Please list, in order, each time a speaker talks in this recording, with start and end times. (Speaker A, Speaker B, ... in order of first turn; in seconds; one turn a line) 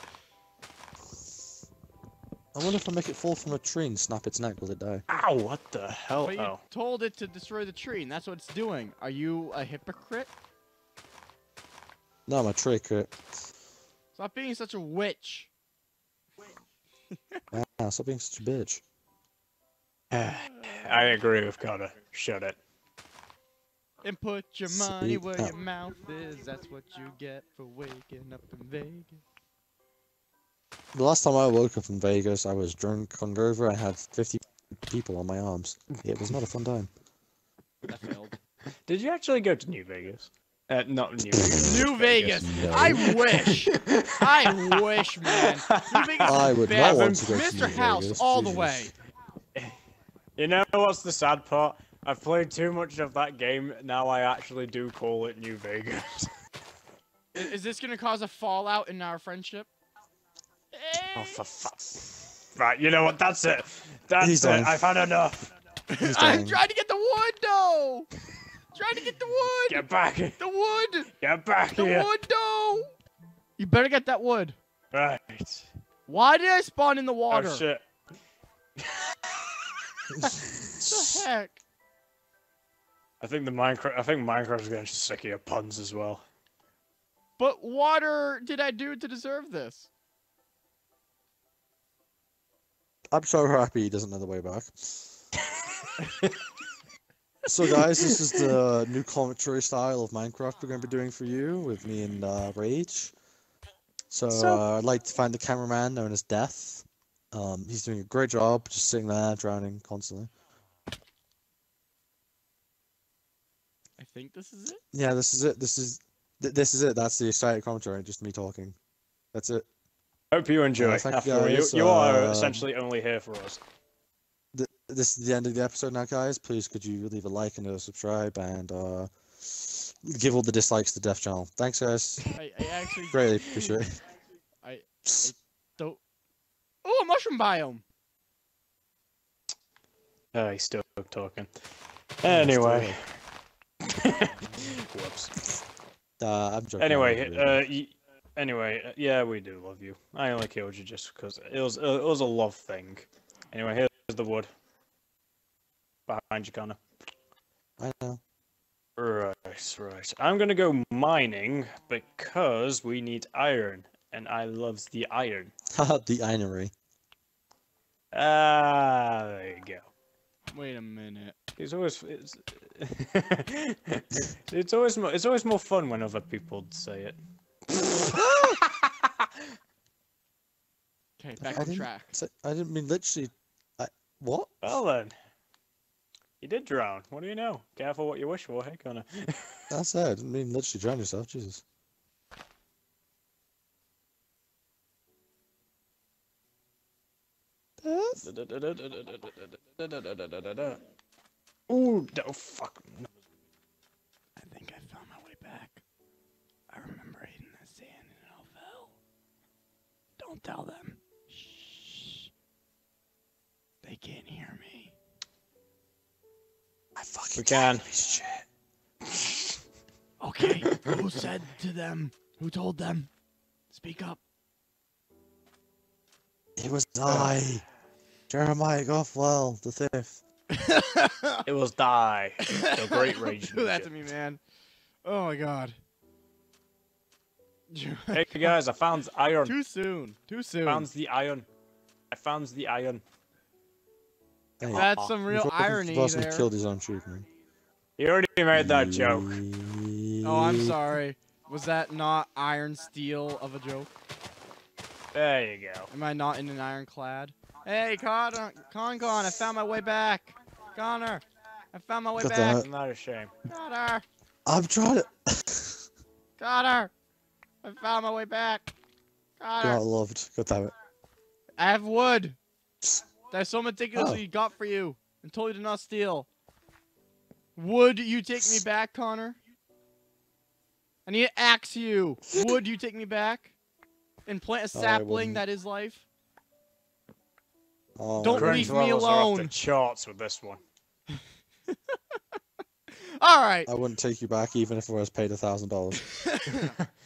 Speaker A: 2.5-5.0
Speaker B: 5.1-6.6
Speaker C: 6.2-10.3
Speaker A: 12.3-13.2
Speaker C: 14.1-15.5
Speaker C: 17.1-17.4
Speaker A: 17.5-18.8
Speaker B: 20.1-22.6
Speaker C: 20.5-21.1
Speaker C: 24.0-29.2
Speaker A: 24.7-25.5
Speaker A: 30.9-36.9
Speaker C: 37.9-38.4
Speaker B: 38.9-47.5
Speaker A: 41.3-41.6
Speaker C: 41.6-48.9
Speaker A: 42.4-43.1
Speaker A: 46.2-48.9
Speaker B: 50.4-56.3
Speaker C: 57.3-59.7
Speaker C: 60.7-61.4
Speaker B: 61.1-65.5
Speaker A: 64.2-64.9
Speaker C: 65.9-68.1
Speaker A: 66.0-66.6
Speaker C: 68.7-69.9
Speaker B: 69.7-70.4
Speaker C: 70.4-71.1
Speaker B: 71.2-72.1
Speaker C: 71.8-72.9
Speaker C: 73.6-74.6
Speaker B: 74.9-75.7
Speaker C: 76.1-77.7
Speaker B: 77.3-77.8
Speaker B: 78.8-79.5
Speaker A: 80.1-80.4
Speaker C: 80.8-81.6
Speaker B: 80.9-81.2
Speaker B: 83.2-86.2
Speaker C: 87.4-89.9
Speaker A: 93.1-95.2
Speaker B: 96.0-96.3
Speaker A: 97.5-103.1
Speaker C: 97.8-98.2
Speaker A: 104.1-110.3
Speaker B: 104.3-104.6
Speaker C: 114.0-114.8
Speaker A: 114.9-118.8
Speaker A: 119.3-119.6
Speaker B: 120.3-123.6
Speaker A: 120.8-122.7
Speaker A: 124.5-132.2
Speaker C: 132.3-133.2
Speaker A: 133.1-134.0
Speaker C: 134.6-136.0
Speaker C: 136.8-137.8
Speaker B: 140.3-141.5
Speaker B: 142.2-143.0
Speaker A: 142.2-143.0
Speaker B: 143.9-145.3
Speaker A: 146.2-147.6
Speaker B: 146.8-154.5
Speaker B: 156.1-156.8
Speaker A: 157.8-158.2
Speaker B: 159.0-165.5
Speaker A: 165.7-166.7
Speaker B: 168.1-169.8
Speaker C: 170.5-171.3
Speaker B: 171.6-177.2
Speaker B: 177.8-179.3
Speaker A: 178.1-178.6
Speaker C: 181.2-182.1
Speaker A: 181.4-184.8
Speaker B: 184.6-185.1
Speaker B: 186.4-189.6
Speaker A: 189.7-191.6
Speaker A: 197.8-198.2
Speaker B: 198.2-200.8
Speaker B: 201.7-203.1
Speaker C: 204.3-205.8
Speaker C: 206.7-208.9
Speaker C: 210.2-212.3
Speaker C: 213.8-214.9
Speaker A: 216.9-218.4
Speaker B: 217.3-217.9
Speaker C: 220.2-223.1
Speaker C: 223.7-224.2
Speaker A: 226.6-227.6
Speaker B: 227.1-227.3
Speaker A: 228.3-230.2
Speaker C: 230.5-231.4
Speaker B: 231.4-233.9
Speaker C: 232.5-234.4
Speaker C: 235.0-235.8
Speaker C: 237.7-238.6
Speaker B: 238.1-239.5
Speaker C: 239.4-240.9
Speaker B: 240.6-241.5
Speaker B: 242.1-243.0
Speaker A: 244.6-247.3
Speaker B: 244.6-245.1
Speaker C: 244.7-246.5
Speaker B: 248.0-249.4
Speaker A: 248.5-250.8
Speaker C: 250.2-253.9
Speaker B: 255.1-255.9
Speaker C: 255.9-262.6
Speaker A: 262.2-262.6
Speaker B: 262.5-263.3
Speaker C: 263.5-264.0
Speaker A: 264.4-265.8
Speaker C: 266.4-266.9
Speaker C: 267.6-268.7
Speaker C: 269.4-269.8
Speaker A: 269.6-270.7
Speaker C: 271.6-272.4
Speaker C: 273.3-276.3
Speaker A: 273.9-274.2
Speaker C: 277.5-279.4
Speaker C: 281.1-283.5
Speaker C: 284.2-286.1
Speaker A: 284.7-285.4
Speaker A: 288.0-288.8
Speaker C: 288.2-289.5
Speaker B: 288.2-290.6
Speaker C: 291.1-291.8
Speaker C: 293.0-293.7
Speaker A: 293.6-296.1
Speaker C: 296.1-296.8